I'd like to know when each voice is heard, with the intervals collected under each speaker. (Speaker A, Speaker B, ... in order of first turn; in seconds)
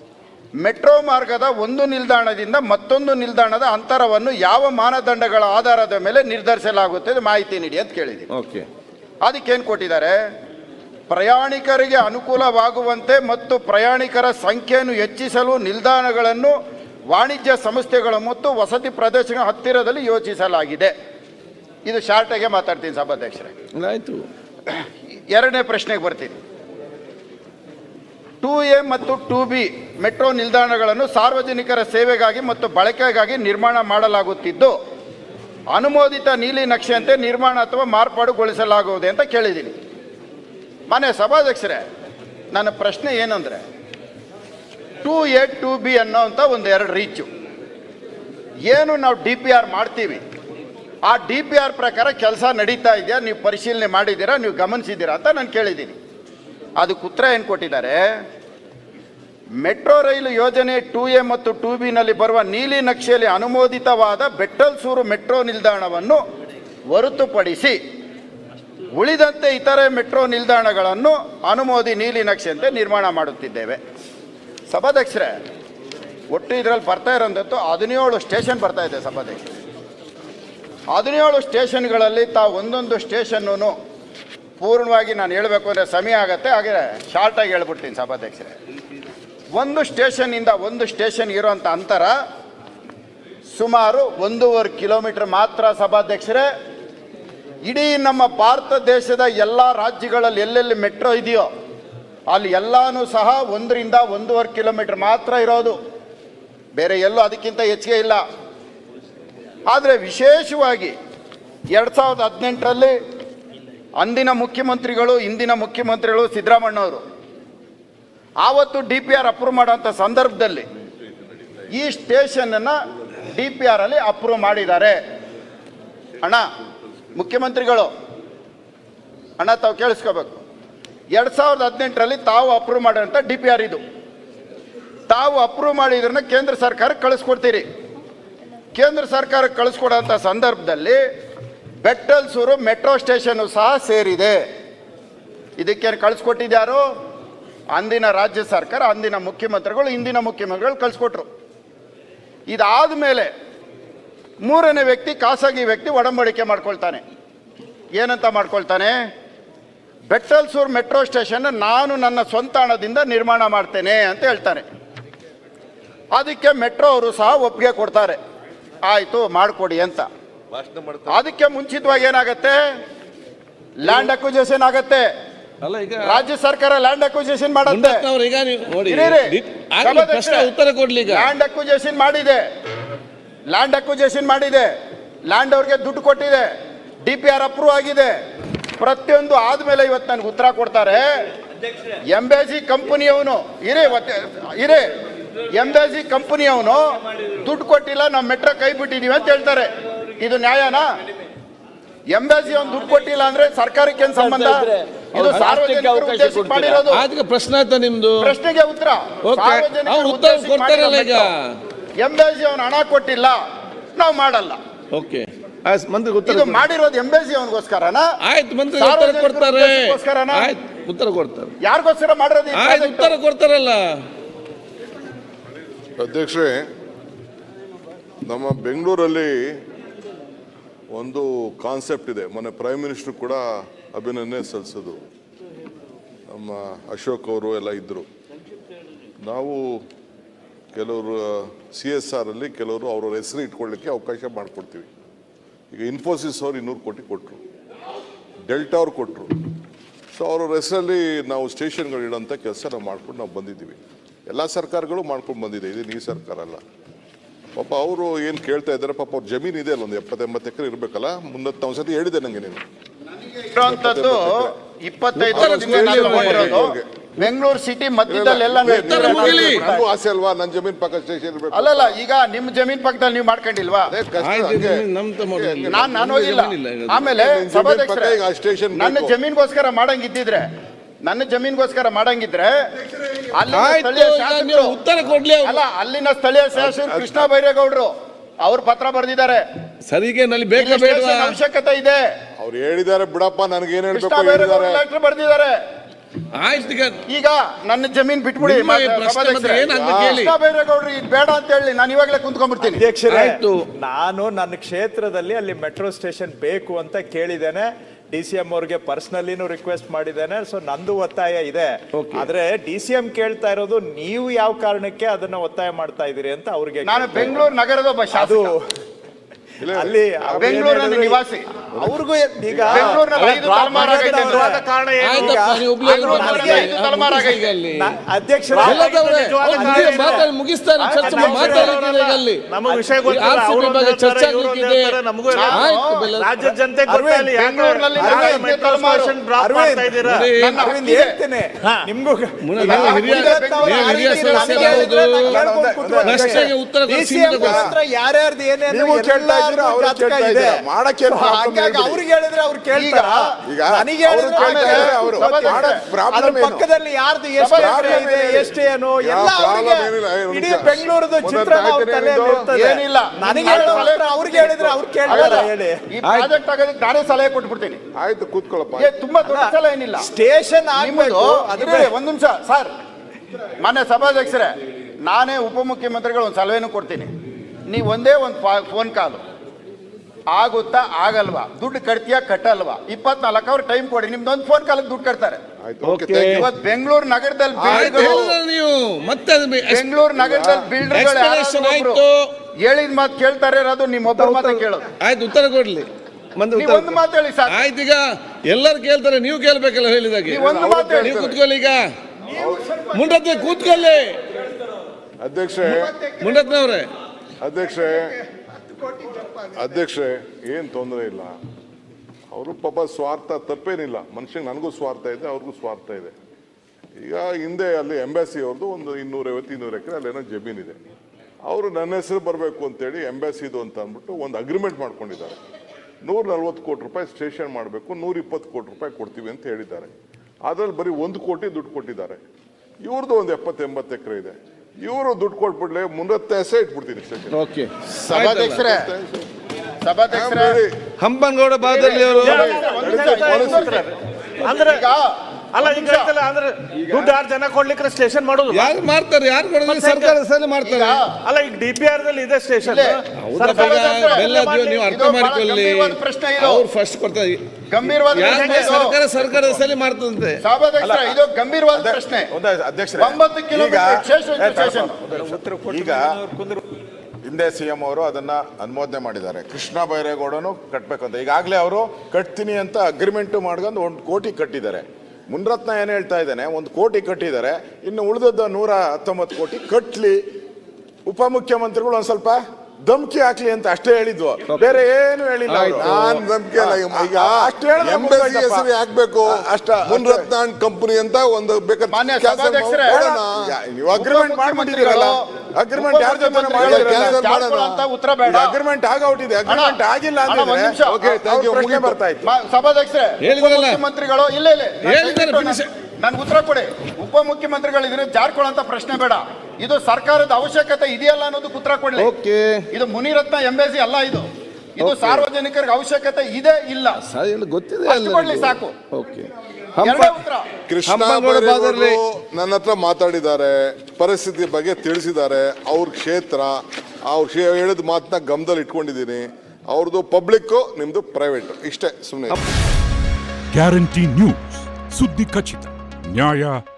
Speaker A: 0.6-8.3, 9.2-10.2, 11.1-16.6, 17.1-20.9, 21.9-23.5, 24.7-26.4, 28.4-34.8, 35.7-39.7, 40.9-41.8, 42.5-43.6, 45.0-47.3, 48.7-50.2, 51.1-56.0, 56.8-58.0, 59.6-66.2, 66.9-67.8, 68.9-73.8, 74.7-75.3, 76.3-79.5, 80.9-83.8, 84.6-88.5, 89.5-92.1, 93.5-96.5, 97.7-101.5, 102.3-105.8, 106.8-108.2, 109.7-111.0, 111.7-113.0, 114.0-117.0, 118.4-120.7, 121.7-122.8, 123.3-125.0, 126.2-126.5, 127.2-127.9, 129.4-130.4, 131.1-133.8, 135.1-137.7, 138.7-141.0, 141.8-144.4, 145.6-146.8, 147.7-151.3, 152.5-153.3, 154.4-157.0, 158.0-159.0, 160.1-164.7, 166.1-168.2, 168.8-170.1, 171.1-172.6, 173.8-175.1, 176.0-178.1, 178.9-180.5, 181.1-182.4, 183.5-184.7, 185.3-186.5, 187.0-188.2, 188.8-191.2, 192.1-194.9, 195.5-200.9, 202.1-207.1, 208.2-211.3, 212.0-213.4, 214.0-214.6, 216.3-218.1, 218.8-220.5, 221.6-223.2, 263.5-269.9, 271.5-273.9, 275.7-278.2, 278.8-280.5, 281.1-282.6, 283.3-284.8, 285.4-289.4, 290.6-292.1, 293.9-295.6, 297.1-302.8, 316.8-318.5, 320.4-321.5, 322.7-324.6, 325.8-327.5, 335.3-336.1, 337.3-339.2, 340.4-341.2, 342.6-344.8, 352.7-353.3, 354.3-355.8, 357.4-358.1, 362.5-367.8, 368.8-370.1, 370.8-372.7, 373.6-377.1, 377.7-379.2, 380.3-385.4, 386.3-388.2, 389.7-392.0, 392.6-394.9, 396.5-397.6, 400.3-401.2, 438.1-438.9, 439.8-440.6, 441.6-443.9, 444.4-445.1, 445.6-446.1, 450.6-451.1, 452.6-454.3, 454.9-456.6, 457.7-459.0, 460.4-462.3, 463.0-465.0, 491.9-493.0, 493.9-498.6, 499.5-501.1, 502.2-512.1, 512.7-517.0, 517.9-518.8, 519.8-520.5
Speaker B: 8.3-8.7, 23.8-24.2, 175.6-176.2, 177.7-181.3, 205.2-208.3, 209.2-211.4, 214.9-216.7, 218.2-221.5, 222.6-223.8, 265.2-266.6, 268.7-269.6, 274.2-277.1, 283.5-285.6, 289.9-291.4, 296.4-297.0, 298.4-300.4, 303.1-303.6, 311.9-312.3, 325.0-327.9, 328.6-335.0, 335.5-336.6, 340.0-340.6, 342.4-345.4, 346.0-347.8, 366.1-366.3, 385.8-386.4, 387.7-389.9, 390.9-392.1, 394.1-397.0, 397.5-400.4, 401.0-401.8, 402.9-404.1, 406.2-406.9, 437.3-438.6, 441.0-442.6, 448.5-451.0, 453.2-460.4, 484.5-484.8, 485.5-486.2, 503.2-503.8, 504.9-505.7, 512.0-512.7, 514.8-515.3, 517.0-520.2, 520.9-522.0
Speaker C: 226.0-226.6, 228.3-229.5, 230.9-235.0, 236.3-238.1, 239.2-239.8, 240.8-244.9, 245.7-247.4, 248.5-249.4, 250.1-253.8, 254.3-256.6, 257.6-262.6, 263.6-264.5, 265.3-266.9, 268.1-272.0, 273.9-275.9, 277.1-279.1, 286.6-287.3, 292.4-294.8, 299.8-300.2, 319.6-320.8, 322.7-323.0, 359.0-362.5, 368.0-368.9, 385.6-386.5, 387.6-388.4, 390.2-390.7, 400.4-401.4, 402.3-402.8, 405.2-406.0, 407.4-408.2, 409.5-411.3, 412.3-416.1, 417.0-420.8, 421.4-425.4, 426.0-429.9, 430.4-432.2, 432.8-437.4, 437.9-439.3, 440.1-440.8, 442.2-443.8, 485.8-493.5, 496.6-497.9, 500.9-502.0, 520.7-532.4
Speaker D: 302.6-317.5, 318.1-318.6, 319.7-326.7, 327.8-328.9, 329.5-331.8, 332.7-333.1, 336.9-337.4, 338.0-338.5, 339.3-365.8, 369.2-371.9, 402.7-403.4, 406.0-406.4, 408.9-409.5, 465.2-466.6
Speaker E: 322.9-323.3, 324.0-325.5, 328.5-330.3, 331.0-340.3, 442.2-444.9, 445.5-448.8, 449.6-450.2, 451.2-454.9, 458.3-458.9
Speaker F: 344.7-346.3, 347.4-347.8, 348.7-352.0, 353.4-356.7, 357.6-358.5, 459.2-459.7, 460.8-461.2, 461.7-466.2, 467.2-480.2, 481.1-488.7, 489.2-490.3, 492.9-497.1, 498.3-502.3
Speaker G: 533.6-535.7, 536.2-536.5